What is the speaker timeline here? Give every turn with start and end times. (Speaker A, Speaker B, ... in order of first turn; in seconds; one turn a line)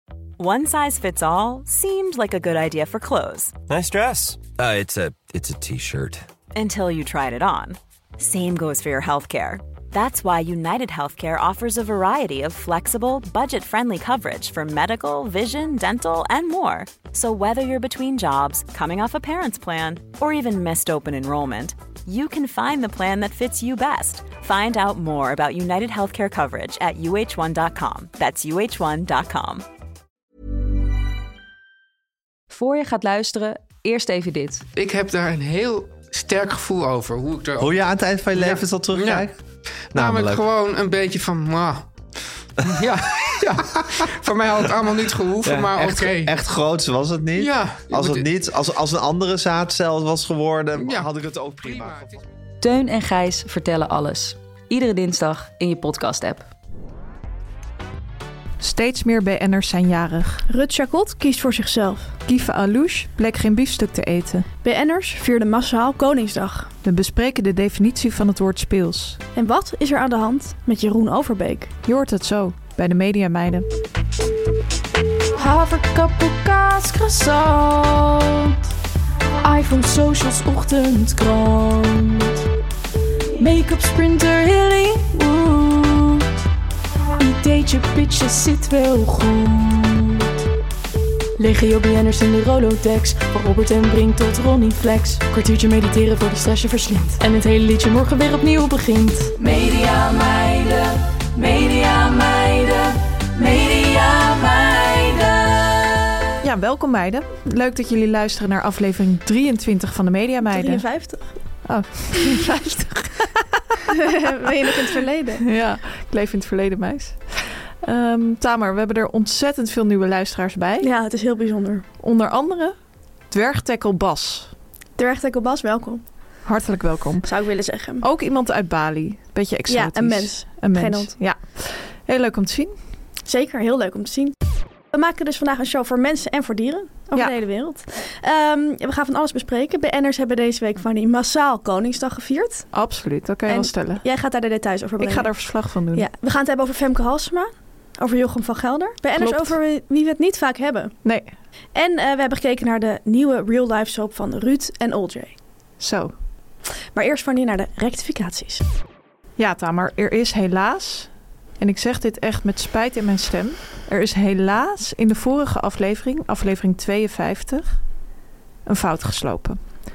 Speaker A: 0.4-3.5
Speaker B: 3.7-6.2
Speaker A: 6.5-29.6
Speaker C: 32.5-34.6
Speaker D: 34.7-37.8
Speaker E: 37.6-39.3
Speaker D: 38.3-39.2
Speaker D: 39.9-41.9
Speaker E: 39.9-40.4
Speaker D: 42.6-46.4
Speaker E: 45.4-52.0
Speaker D: 47.3-48.3
Speaker D: 50.8-51.1
Speaker D: 51.6-52.0
Speaker C: 52.6-56.5
Speaker F: 58.6-60.4
Speaker G: 60.5-62.1
Speaker F: 62.2-64.5
Speaker G: 64.6-66.7
Speaker F: 66.8-69.2
Speaker G: 69.3-71.7
Speaker F: 71.8-73.7
Speaker H: 75.3-78.6
Speaker H: 79.4-82.4
Speaker H: 83.3-86.3
Speaker H: 87.2-90.3
Speaker H: 91.4-106.0
Speaker F: 106.4-110.9
Speaker G: 110.4-111.6
Speaker F: 111.6-114.3
Speaker G: 113.9-115.4
Speaker F: 115.4-120.9
Speaker G: 120.8-121.8
Speaker F: 122.0-122.7
Speaker F: 123.3-124.5
Speaker G: 125.0-126.0
Speaker F: 126.4-127.3
Speaker G: 127.2-128.0
Speaker F: 128.0-132.7
Speaker G: 129.7-131.1
Speaker G: 133.2-134.3
Speaker G: 134.9-142.7
Speaker F: 142.7-144.0
Speaker G: 143.5-150.9
Speaker F: 145.0-146.1
Speaker F: 149.2-149.6
Speaker F: 151.0-151.3
Speaker G: 151.7-155.3
Speaker F: 155.8-156.1
Speaker G: 156.9-158.6
Speaker F: 159.4-167.8
Speaker F: 168.7-169.6